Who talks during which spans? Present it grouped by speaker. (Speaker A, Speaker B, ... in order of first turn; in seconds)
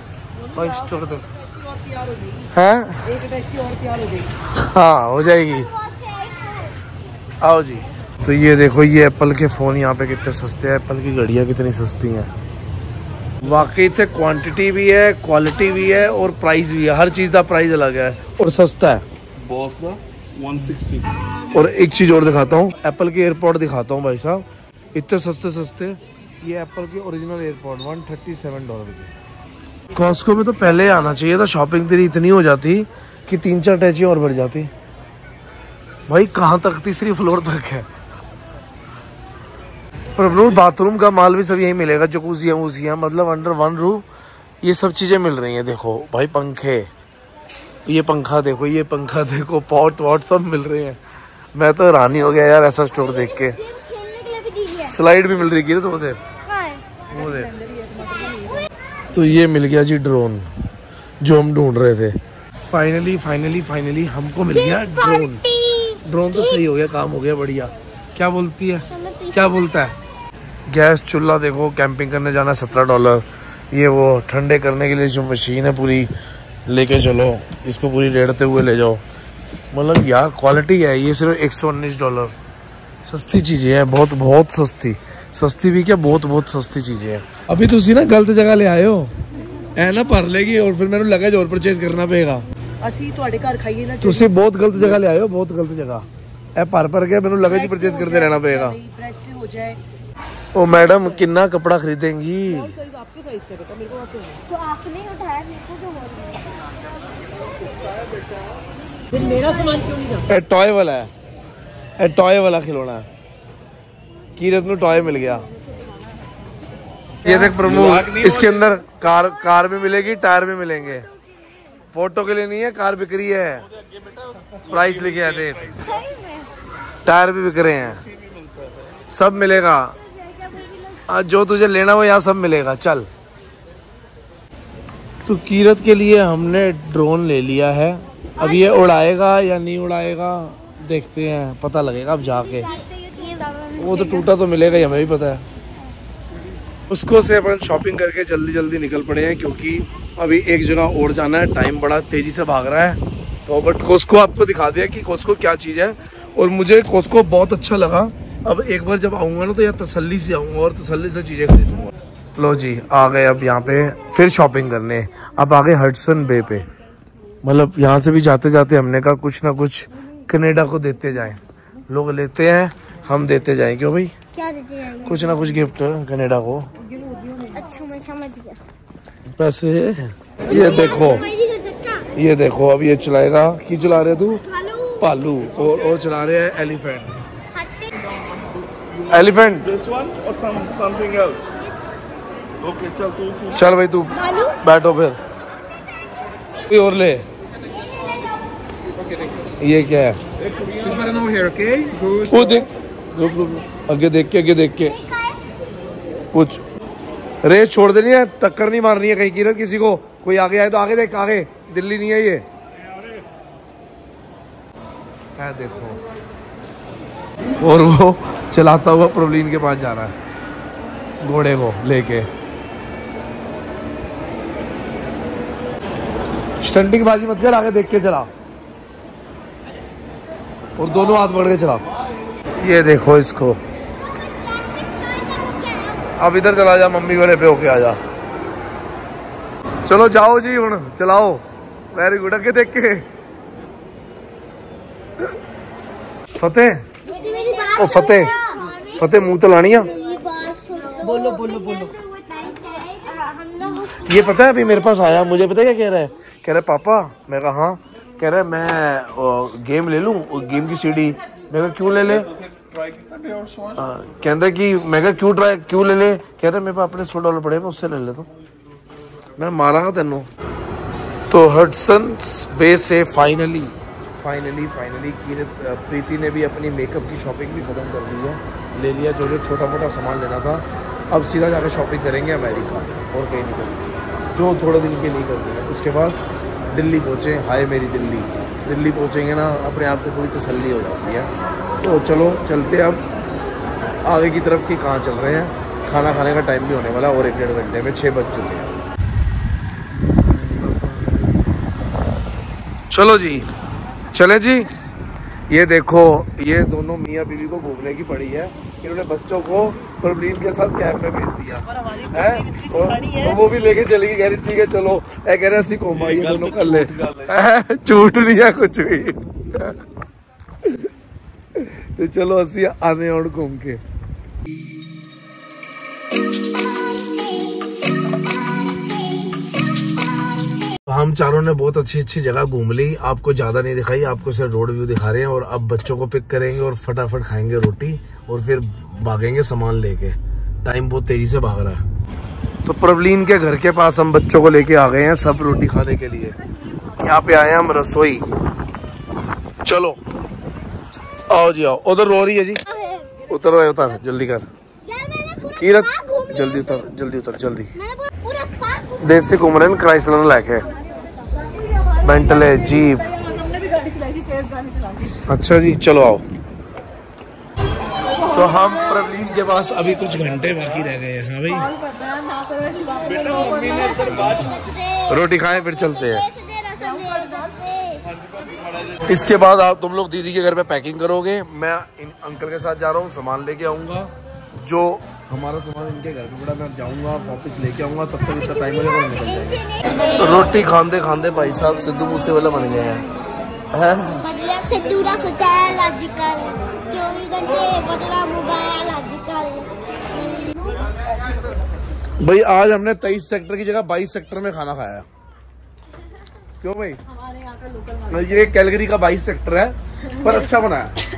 Speaker A: 0.4-2.5, 3.0-4.3, 57.6-57.9, 92.8-94.3, 97.5-99.8, 102.5-104.4, 109.1-110.3, 251.0-251.9, 311.7-313.4, 363.7-364.9
Speaker B: 0.6-1.2, 2.5-3.1, 4.5-5.7, 7.4-12.3, 13.4-19.1, 21.5-29.1, 29.9-34.7, 36.1-37.9, 40.1-44.0, 44.6-46.9, 47.9-51.0, 51.5-53.6, 54.8-56.2, 57.1-57.5, 59.1-60.5, 61.2-65.4, 66.1-70.0, 70.7-76.1, 76.7-79.0, 79.7-82.3, 83.0-89.1, 89.8-92.5, 94.0-98.8, 100.5-102.8, 110.3-111.1, 112.0-113.1, 114.4-115.5, 117.2-121.1, 121.9-123.7, 124.7-125.8, 127.1-128.0, 129.1-130.0, 131.1-133.1, 135.3-142.7, 143.8-145.4, 146.9-166.7, 167.4-174.1, 175.1-176.7, 179.3-181.3, 182.2-184.4, 185.0-187.2, 189.1-189.7, 193.5-195.2, 196.7-197.3, 199.6-200.2, 202.3-205.0, 206.3-206.6, 207.4-212.5, 215.4-216.0, 217.6-220.1, 221.2-222.3, 226.6-228.3, 230.8-231.8, 232.6-233.6, 236.2-238.0, 239.9-243.1, 246.4-246.9, 247.7-248.3, 248.9-249.9, 254.0-262.3, 263.8-268.3, 269.4-270.3, 271.3-286.2, 286.7-293.1, 294.0-298.7, 300.1-301.3, 302.9-303.5, 304.1-304.7, 305.5-319.8, 321.6-323.8, 330.9-341.8, 342.6-346.4, 347.0-348.3, 349.6-350.0, 351.3-352.6, 353.3-354.5, 355.6-357.7, 359.0-360.7, 362.0-363.2, 365.2-366.3, 368.2-371.8, 374.1-374.4, 375.1-376.3, 379.0-393.1, 393.7-394.2, 402.2-405.1, 406.6-407.0, 408.1-410.9
Speaker C: 5.2-6.8, 52.9-55.0, 56.5-56.8, 64.5-66.6, 68.9-69.6, 104.6-106.0, 125.9-126.5, 130.0-131.0, 138.4-138.8, 142.7-144.2, 174.3-175.3, 177.4-178.6, 180.4-182.1, 184.5-185.0, 187.5-188.1, 191.6-192.1, 194.1-194.6, 196.0-196.6, 197.7-198.7, 204.8-205.5, 234.0-236.1, 247.1-254.6, 326.5-329.4, 330.0-330.7, 352.7-353.2, 354.8-356.9, 357.8-359.1, 372.5-378.1, 389.0-390.6, 394.2-399.7
Speaker D: 19.4-21.1, 117.3-118.7, 124.5-125.8, 128.0-128.9, 188.4-191.5, 192.6-193.6, 199.0-199.5, 200.4-202.7, 262.1-263.8, 315.9-317.3